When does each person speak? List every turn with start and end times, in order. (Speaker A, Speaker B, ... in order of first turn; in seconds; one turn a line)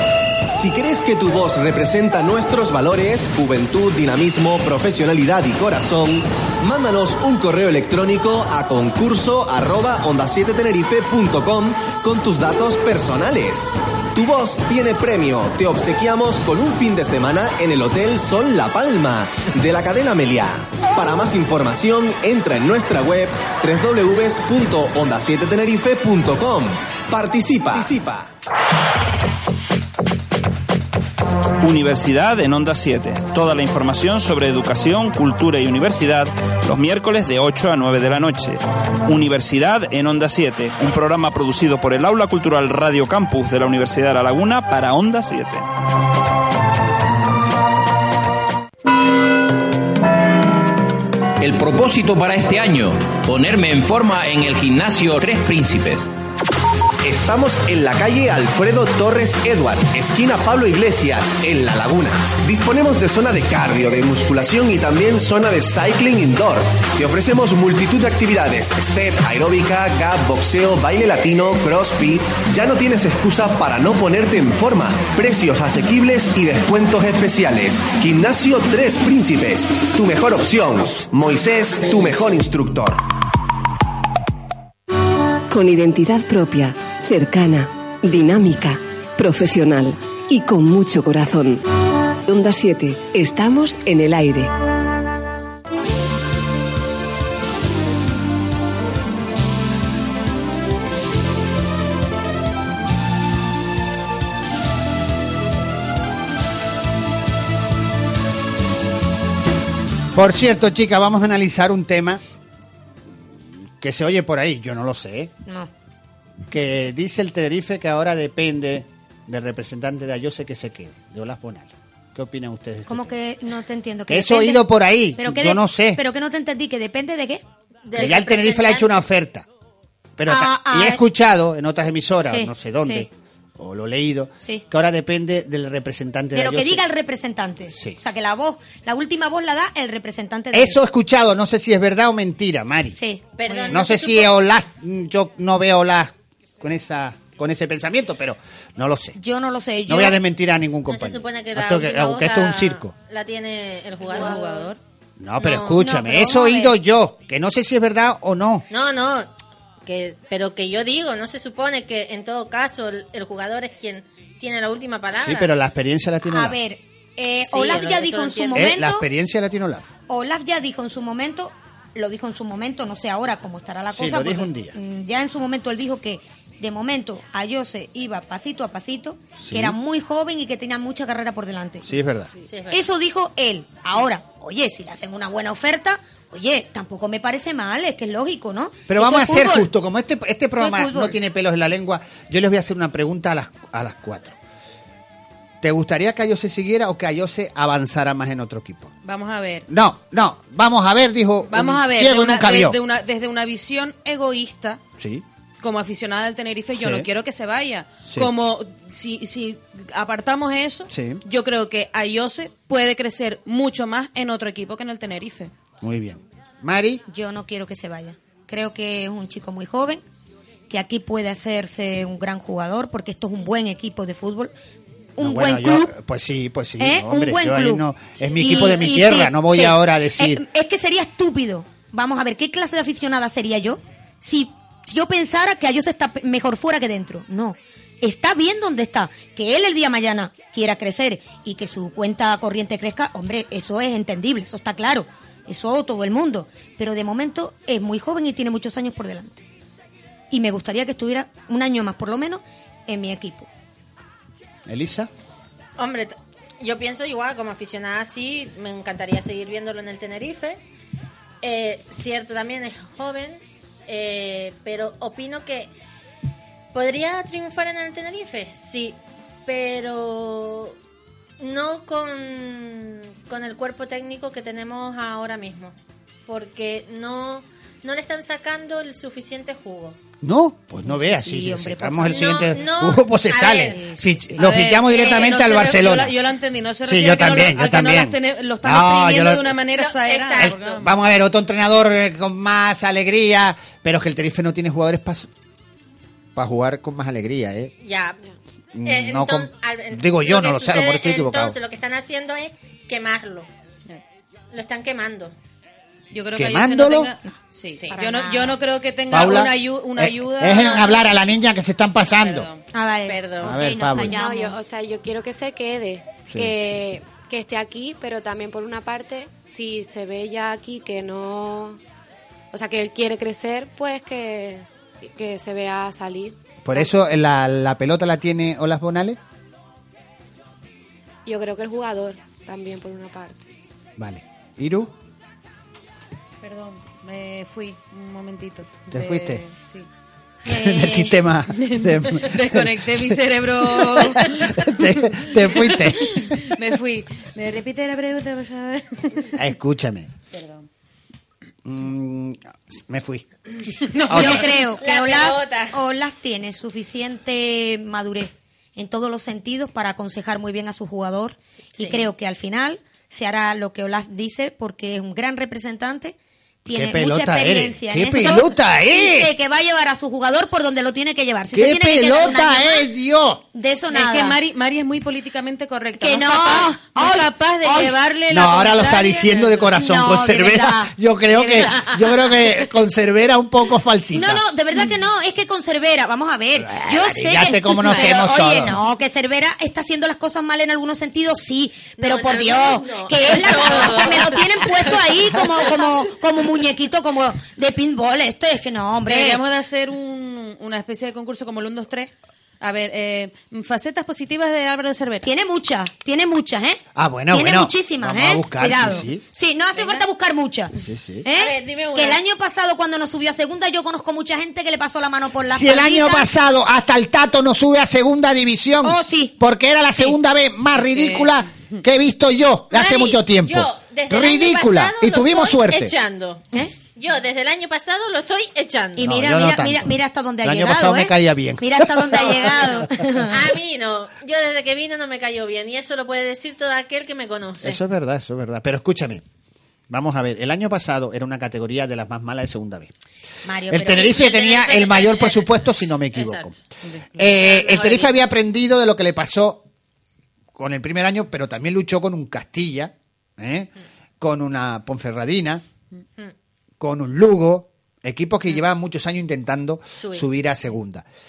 Speaker A: 0.5-28.3
Speaker B: 31.6-45.7
Speaker C: 51.4-56.1
Speaker A: 57.0-83.0
Speaker D: 85.5-91.6
Speaker D: 92.2-94.5
Speaker E: 110.1-112.2
Speaker E: 113.8-115.3
Speaker F: 115.5-115.7
Speaker E: 116.5-123.1
Speaker F: 122.9-127.4
Speaker E: 124.1-126.0
Speaker G: 127.8-128.9
Speaker E: 127.9-129.4
Speaker E: 130.2-136.8
Speaker F: 130.3-131.0
Speaker F: 132.3-133.1
Speaker F: 136.3-140.8
Speaker E: 137.7-138.0
Speaker E: 140.5-143.0
Speaker F: 142.9-143.7
Speaker G: 143.4-144.3
Speaker E: 143.7-149.2
Speaker F: 149.2-150.2
Speaker E: 149.9-152.9
Speaker G: 150.9-154.8
Speaker F: 154.1-154.5
Speaker E: 155.2-158.7
Speaker G: 155.4-155.8
Speaker F: 155.7-156.8
Speaker G: 158.7-159.3
Speaker G: 159.8-165.5
Speaker E: 165.2-166.6
Speaker F: 166.2-169.1
Speaker G: 167.4-168.7
Speaker E: 168.5-169.9
Speaker F: 170.1-181.9
Speaker E: 173.9-174.7
Speaker E: 179.4-179.8
Speaker E: 181.8-182.3
Speaker G: 182.4-182.8
Speaker F: 182.7-189.7
Speaker E: 188.9-194.4
Speaker F: 190.6-191.2
Speaker E: 195.6-198.9
Speaker H: 199.0-199.7
Speaker E: 199.7-202.8
Speaker H: 201.5-204.8
Speaker E: 205.0-205.2
Speaker H: 205.6-215.5
Speaker E: 206.7-207.1
Speaker E: 210.9-211.2
Speaker E: 215.8-217.0
Speaker F: 217.1-220.0
Speaker F: 220.7-224.5
Speaker F: 225.2-225.9
Speaker E: 225.2-230.4
Speaker F: 226.8-249.4
Speaker F: 250.3-253.5
Speaker E: 254.7-255.1
Speaker G: 255.8-260.6
Speaker G: 261.4-265.7
Speaker G: 266.7-270.8
Speaker G: 271.4-275.7
Speaker G: 276.3-280.0
Speaker E: 280.2-286.1
Speaker F: 280.8-282.6
Speaker G: 282.1-283.8
Speaker F: 283.7-284.2
Speaker H: 284.4-290.9
Speaker G: 284.9-285.5
Speaker E: 286.8-289.6
Speaker G: 289.7-290.7
Speaker E: 290.4-295.3
Speaker E: 296.3-297.7
Speaker G: 297.8-298.2
Speaker E: 298.7-301.6
Speaker G: 298.8-303.5
Speaker G: 304.5-305.3
Speaker H: 306.1-311.1
Speaker E: 306.3-307.1
Speaker G: 307.7-307.9
Speaker F: 307.9-308.6
Speaker E: 309.1-312.5
Speaker H: 312.2-312.6
Speaker F: 312.7-314.6
Speaker G: 313.1-313.6
Speaker E: 313.4-314.2
Speaker I: 314.1-321.8
Speaker E: 316.3-316.5
Speaker I: 322.5-326.9
Speaker E: 326.6-329.2
Speaker I: 331.2-333.4
Speaker E: 334.0-334.9
Speaker H: 336.4-339.9
Speaker E: 338.9-339.4
Speaker F: 340.4-341.2
Speaker E: 340.4-346.4
Speaker H: 341.5-349.3
Speaker E: 349.3-350.1
Speaker H: 350.3-350.6
Speaker E: 351.6-353.2
Speaker H: 353.9-354.4
Speaker F: 354.1-372.9
Speaker E: 354.1-354.4
Speaker G: 354.6-355.8
Speaker G: 361.8-362.0
Speaker E: 366.7-369.3
Speaker E: 371.5-373.4
Speaker F: 373.5-374.4
Speaker H: 373.9-379.7
Speaker F: 376.0-377.9
Speaker E: 378.3-384.4
Speaker F: 379.8-382.0
Speaker F: 384.1-399.4
Speaker E: 386.6-388.8
Speaker G: 392.0-395.1
Speaker H: 399.1-405.3
Speaker F: 405.2-416.3
Speaker E: 406.9-409.2
Speaker E: 410.8-411.2
Speaker G: 411.3-412.2
Speaker E: 415.5-425.9
Speaker F: 418.8-419.3
Speaker H: 420.8-421.3
Speaker G: 422.7-429.0
Speaker F: 429.0-433.4
Speaker E: 429.0-432.7
Speaker G: 433.3-437.8
Speaker E: 437.6-439.2
Speaker E: 439.9-442.9
Speaker F: 443.4-444.1
Speaker E: 443.7-446.6
Speaker G: 443.9-445.5
Speaker G: 446.1-446.5
Speaker E: 447.2-449.6
Speaker G: 447.2-448.2
Speaker E: 450.6-455.6
Speaker E: 456.8-461.0
Speaker G: 460.0-460.2